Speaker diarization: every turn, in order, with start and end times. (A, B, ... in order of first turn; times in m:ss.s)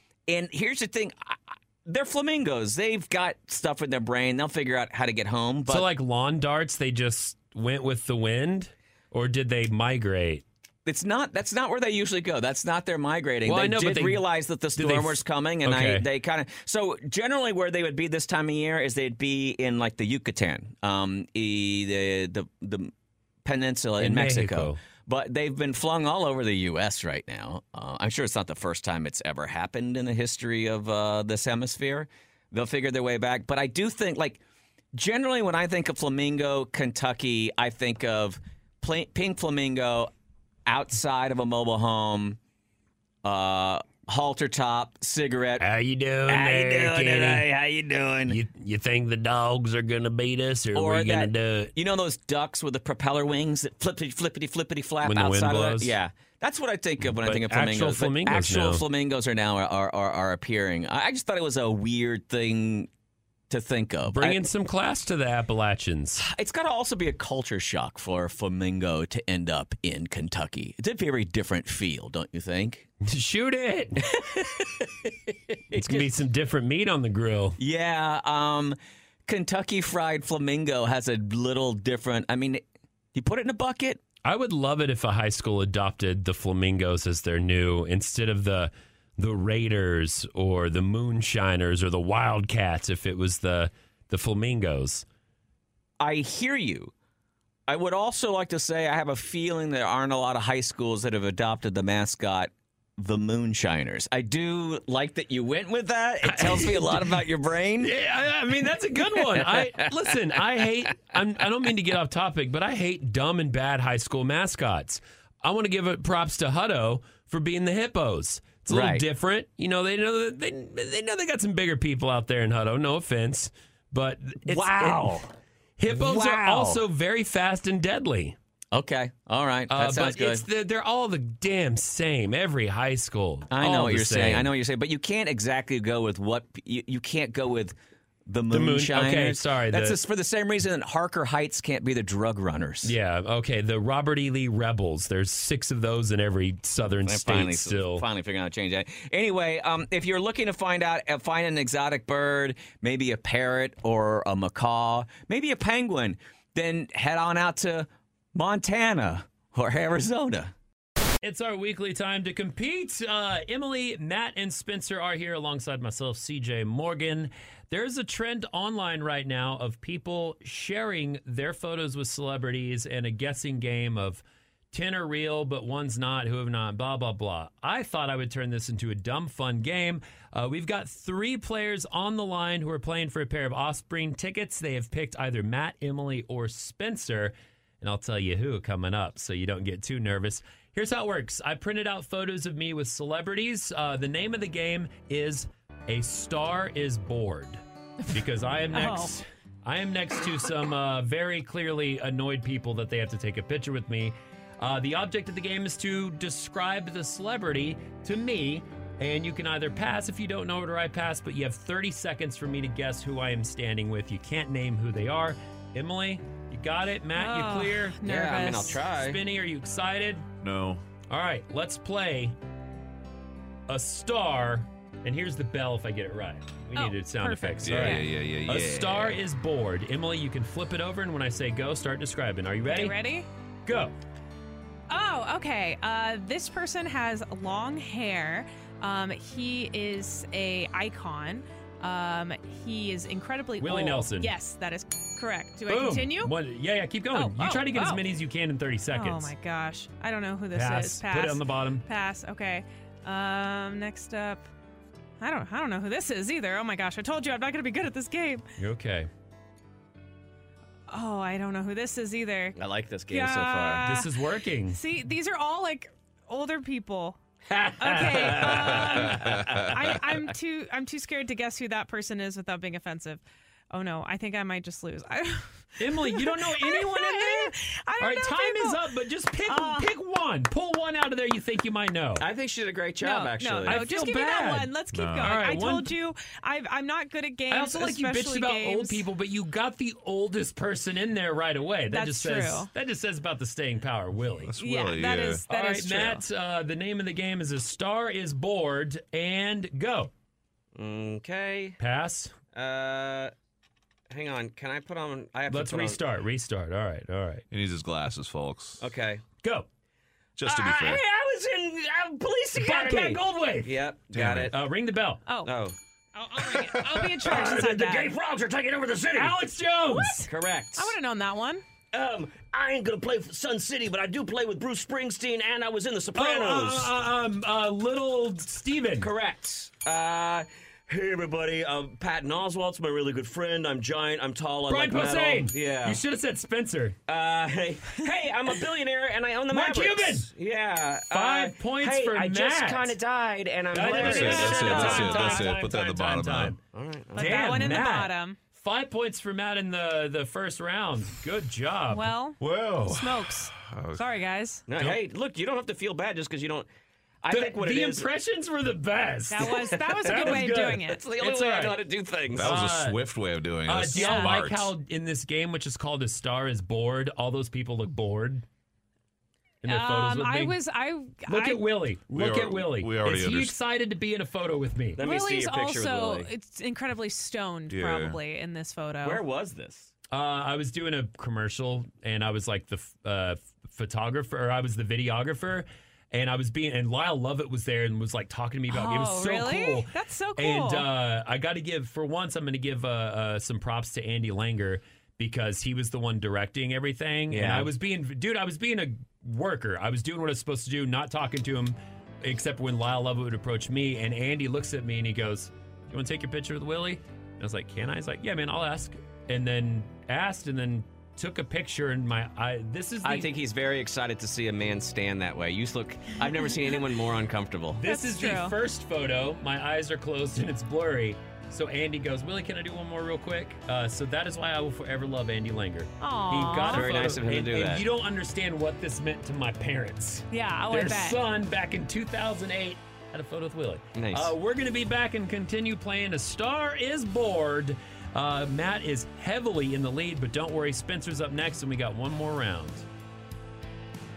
0:00.3-0:05.9 A
0:05.7-0:10.4 B
0:10.8-0:22.9 A
0:13.4-0:14.2 B
0:14.8-0:16.0 B
0:23.4-0:34.4 A
0:24.0-0:24.8 B
0:34.9-0:40.1 A
0:40.7-0:42.4 A
0:43.2-0:45.6 A
0:45.6-0:47.5 B
0:46.3-0:48.4 A
0:48.2-0:51.7 B
0:50.7-1:02.9 A
0:55.0-0:55.9 B
0:57.2-0:58.8 B
1:03.5-1:04.4 A
1:04.1-1:06.2 B
1:06.2-1:12.9 A
1:13.0-1:14.2 B
1:14.0-1:15.1 A
1:15.7-1:16.1 A
1:15.7-1:17.6 B
1:17.6-1:18.8 A
1:19.3-1:22.6 A
1:23.1-1:24.0 A
1:24.2-1:35.0 B
1:36.0-1:36.9 A
1:37.7-1:47.9 A
1:46.2-1:47.2 B
1:47.8-2:05.2 B
1:49.1-1:49.9 A
1:58.7-1:59.0 A
2:04.5-2:05.3 A
2:05.8-2:08.4 B
2:05.9-2:06.8 A
2:08.7-2:10.4 A
2:09.7-2:14.5 B
2:13.5-2:17.7 A
2:18.3-2:22.9 A
2:18.5-2:20.0 B
2:22.8-2:28.0 B
2:27.0-2:40.5 A
2:41.2-3:17.6 B
3:18.1-3:38.0 B
3:18.7-3:19.2 C
3:37.1-3:38.8 C
3:38.0-3:39.2 A
3:38.9-3:40.2 B
3:40.4-3:40.8 D
3:41.1-3:42.4 B
3:43.7-3:53.0 B
3:46.7-3:48.1 C
3:47.6-3:49.2 D
3:52.6-3:53.2 C
3:53.6-3:53.9 B
3:54.9-4:06.3 C
4:03.6-4:04.3 B
4:05.7-4:09.3 B
4:07.1-4:08.1 C
4:08.9-4:14.4 C
4:10.5-4:11.8 B
4:15.2-4:18.4 C
4:18.6-4:19.1 B
4:20.9-4:27.2 C
4:22.6-4:23.9 A
4:23.8-4:24.8 B
4:27.5-4:30.0 A
4:27.8-4:38.8 C
4:27.8-4:29.1 B
4:29.1-4:29.4 D
4:35.8-4:42.3 B
4:39.4-4:39.9 C
4:42.2-4:43.8 A
4:43.0-4:49.0 C
4:43.6-4:45.9 B
4:44.9-4:45.7 D
4:47.5-4:54.5 B
4:51.9-4:52.7 C
4:54.4-4:55.4 D
4:54.6-4:56.2 C
4:55.5-5:00.1 B
5:00.8-5:01.8 A
5:01.8-5:02.3 B
5:02.5-5:03.3 A
5:04.1-5:06.0 A
5:05.5-5:07.4 B
5:07.5-5:08.8 D
5:08.8-5:09.2 A
5:09.4-5:09.7 B
5:10.4-5:11.0 D
5:10.4-5:14.6 A
5:12.6-5:15.2 B
5:14.1-5:14.5 D
5:15.3-5:15.5 C
5:15.4-5:15.8 A
5:16.2-5:18.1 C
5:17.2-5:19.3 A
5:19.1-5:20.2 B
5:19.9-5:21.6 C
5:20.3-5:20.9 A
5:21.9-5:26.9 A
5:26.1-5:29.1 B
5:29.0-5:36.0 A
5:34.7-5:37.0 B
5:37.1-5:45.1 A
5:39.5-5:40.3 B
5:41.1-5:42.9 B
5:43.7-5:46.6 B
5:44.0-5:46.6 D
5:44.0-5:45.5 C
5:46.7-5:47.8 A
5:47.1-5:48.4 C
5:47.2-5:52.1 B
5:51.9-5:54.6 C
5:52.4-5:54.1 D
5:54.7-5:56.7 A
5:57.2-5:58.1 A
5:57.3-6:01.8 B
5:59.3-6:01.0 C
5:59.5-6:02.6 A
6:02.3-6:04.7 D
6:02.4-6:03.0 B
6:03.6-6:08.4 B
6:03.9-6:04.4 C
6:09.6-6:10.6 B
6:09.6-6:11.7 C
6:11.3-6:15.0 B
6:12.1-6:13.6 D
6:15.0-6:16.3 A
6:15.0-6:19.2 C
6:17.7-6:18.2 D
6:19.0-6:19.9 A
6:20.1-6:53.3 B
6:28.7-6:30.9 C
6:37.3-6:37.7 A
6:53.0-6:57.8 A
6:57.7-7:22.9 B
6:57.8-6:58.6 C
7:06.0-7:06.9 C
7:06.7-7:07.8 A
7:10.3-7:11.2 C
7:13.9-7:14.3 A